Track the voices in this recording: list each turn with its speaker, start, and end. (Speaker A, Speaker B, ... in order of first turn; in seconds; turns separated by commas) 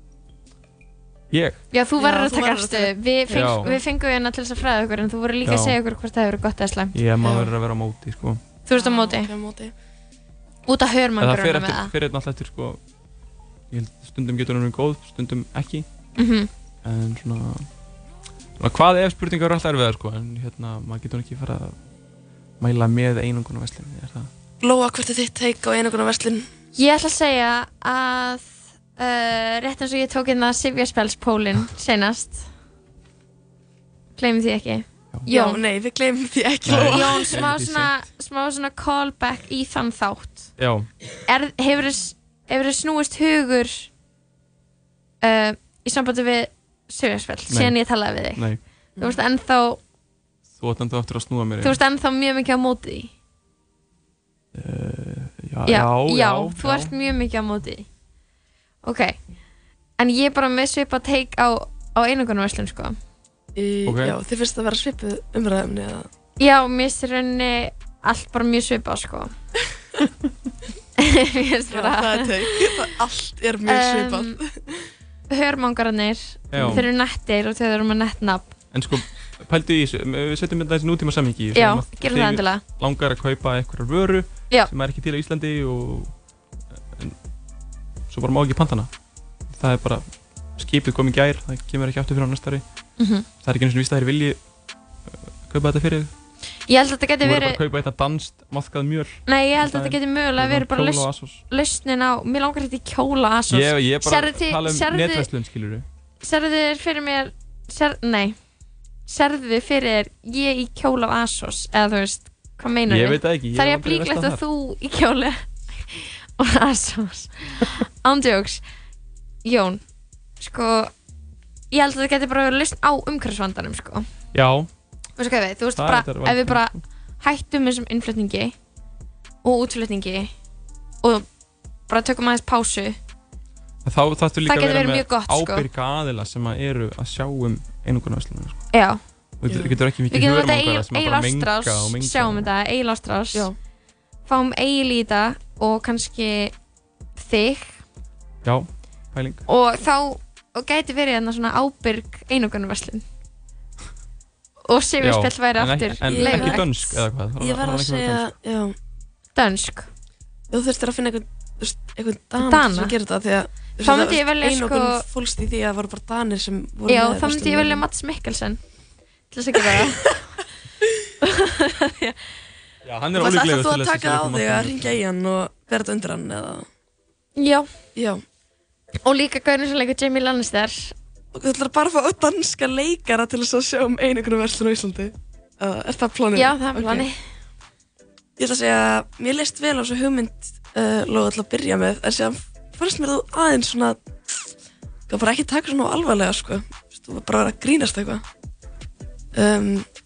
Speaker A: 1.3-1.6, Speaker B: 1.7-6.9, Speaker C: 2.0-3.8, Speaker A: 3.3-3.7, Speaker A: 5.4-5.8, Speaker A: 6.9-8.4, Speaker C: 7.2-7.5, Speaker B: 8.7-9.3, Speaker C: 8.7-9.7, Speaker B: 10.7-11.9, Speaker A: 11.2-12.8, Speaker A: 13.7-15.9, Speaker B: 16.2-16.5, Speaker A: 16.8-17.7, Speaker A: 18.6-21.8, Speaker A: 22.6-24.3, Speaker C: 24.6-26.5, Speaker B: 26.8-32.5, Speaker B: 34.1-35.6, Speaker C: 35.3-37.4, Speaker A: 36.6-37.9, Speaker B: 36.9-40.5, Speaker A: 40.6-40.9, Speaker B: 41.2-43.9, Speaker B: 45.2-48.4, Speaker A: 47.5-47.7, Speaker A: 48.3-48.6, Speaker B: 49.0-49.8, Speaker A: 50.5-51.8, Speaker B: 51.6-53.1, Speaker A: 54.5-56.9, Speaker B: 55.7-57.9, Speaker B: 58.8-59.2, Speaker B: 60.0-63.0, Speaker C: 63.5-66.1, Speaker A: 63.9-64.2, Speaker B: 66.4-69.3, Speaker B: 71.0-72.8, Speaker C: 71.7-74.9, Speaker B: 73.7-74.4, Speaker B: 75.3-78.5, Speaker A: 76.5-76.9, Speaker C: 76.5-76.8, Speaker A: 78.7-86.1, Speaker B: 81.5-82.6, Speaker A: 86.7-87.2, Speaker A: 88.1-88.9, Speaker A: 89.5-90.0, Speaker A: 90.5-92.6, Speaker B: 93.0-93.2, Speaker A: 93.4-94.4, Speaker A: 95.1-96.1, Speaker B: 96.7-97.6, Speaker A: 97.2-101.4, Speaker B: 99.2-105.3, Speaker A: 103.5-105.8, Speaker B: 106.2-108.4, Speaker B: 109.1-118.6, Speaker A: 112.9-114.4, Speaker B: 119.4-119.8, Speaker B: 120.4-120.9, Speaker B: 121.7-124.0, Speaker A: 124.3-124.7, Speaker B: 125.2-128.5, Speaker A: 125.7-126.8, Speaker B: 129.4-130.3, Speaker B: 131.9-133.0, Speaker A: 133.8-138.6, Speaker B: 134.4-135.7, Speaker B: 138.7-139.0, Speaker A: 139.4-142.5, Speaker C: 139.5-139.7, Speaker B: 140.1-143.5, Speaker B: 144.3-146.5, Speaker B: 147.2-147.8, Speaker A: 148.4-149.4, Speaker B: 149.5-153.0, Speaker B: 154.6-157.0, Speaker A: 155.0-158.3, Speaker C: 156.0-156.6, Speaker C: 157.4-158.7, Speaker B: 159.3-159.9, Speaker C: 160.5-167.8, Speaker B: 162.4-162.9, Speaker B: 163.8-165.0, Speaker B: 166.9-168.6, Speaker B: 169.3-170.2, Speaker C: 169.6-169.9, Speaker B: 171.2-172.2, Speaker A: 172.8-175.0, Speaker C: 173.2-176.7, Speaker B: 177.4-177.7, Speaker C: 177.9-178.2, Speaker B: 179.0-180.9, Speaker C: 181.3-187.1, Speaker B: 186.3-187.2, Speaker C: 188.4-194.3, Speaker C: 195.1-198.2, Speaker C: 199.3-199.9